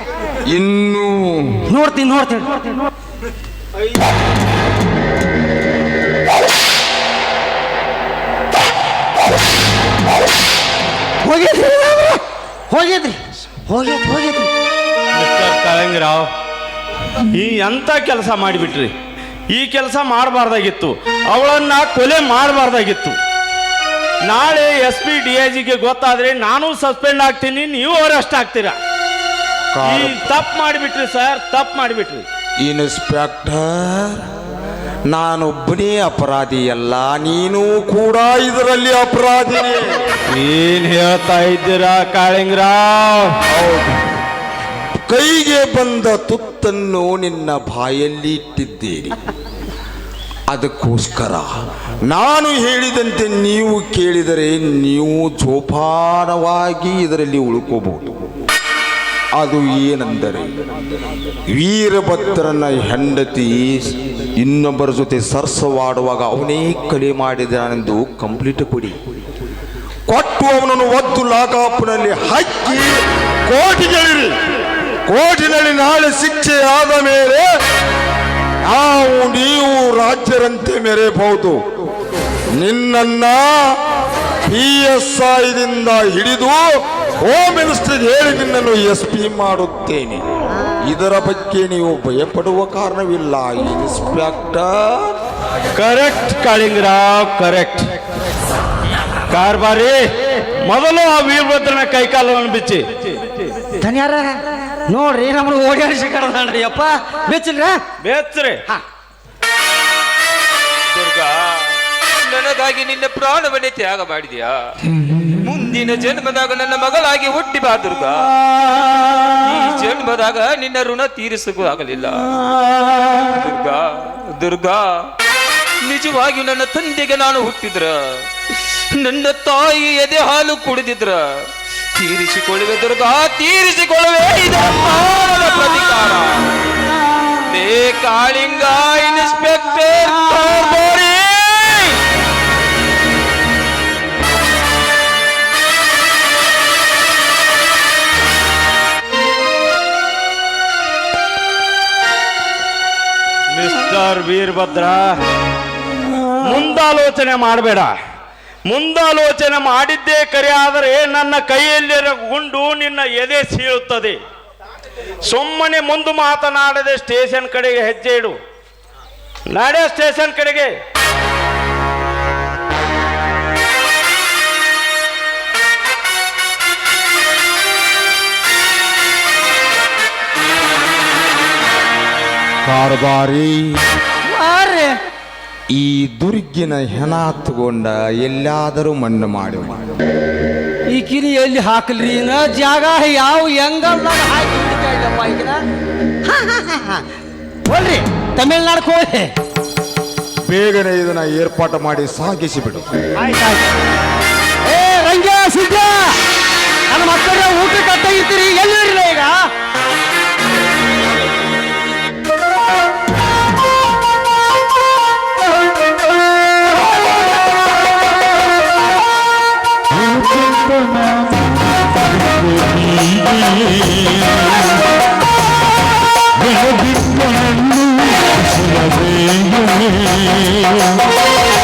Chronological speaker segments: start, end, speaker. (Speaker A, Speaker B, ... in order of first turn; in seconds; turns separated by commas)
Speaker A: 0.5-1.6, Speaker B: 1.7-2.7, Speaker B: 11.2-14.5, Speaker C: 15.2-16.3, Speaker C: 17.3-18.9, Speaker C: 19.5-23.2, Speaker C: 24.3-28.8, Speaker A: 29.7-30.2, Speaker C: 29.8-32.2, Speaker A: 32.7-34.2, Speaker A: 35.1-40.0, Speaker C: 40.3-43.4, Speaker A: 43.5-44.0, Speaker A: 45.1-49.1, Speaker A: 50.5-51.5, Speaker A: 52.1-58.1, Speaker A: 59.4-60.5, Speaker A: 61.5-63.7, Speaker A: 64.4-69.0, Speaker A: 70.1-72.9, Speaker A: 73.5-74.3, Speaker A: 75.1-77.5, Speaker A: 78.7-81.6, Speaker A: 82.6-83.5, Speaker A: 84.5-86.7, Speaker A: 87.2-90.2, Speaker A: 90.9-94.8, Speaker C: 95.8-97.9, Speaker C: 99.3-100.1, Speaker C: 100.7-103.1, Speaker B: 103.8-107.8, Speaker C: 108.0-108.6, Speaker D: 110.9-114.8, Speaker D: 115.3-118.3, Speaker D: 119.1-122.4, Speaker D: 123.1-125.1, Speaker D: 125.8-136.5, Speaker D: 137.5-142.0, Speaker C: 153.5-155.2, Speaker D: 156.0-156.7, Speaker C: 156.4-157.9, Speaker C: 158.7-164.2, Speaker C: 165.3-168.4, Speaker C: 169.5-170.8, Speaker A: 182.7-183.7, Speaker B: 184.2-185.0, Speaker A: 185.8-189.8, Speaker B: 190.9-195.6, Speaker B: 196.3-197.0, Speaker B: 197.7-199.3, Speaker A: 200.5-202.9, Speaker B: 203.2-203.6, Speaker B: 204.7-206.2, Speaker B: 206.9-209.3, Speaker A: 222.5-224.0, Speaker A: 226.4-227.8, Speaker A: 228.4-230.8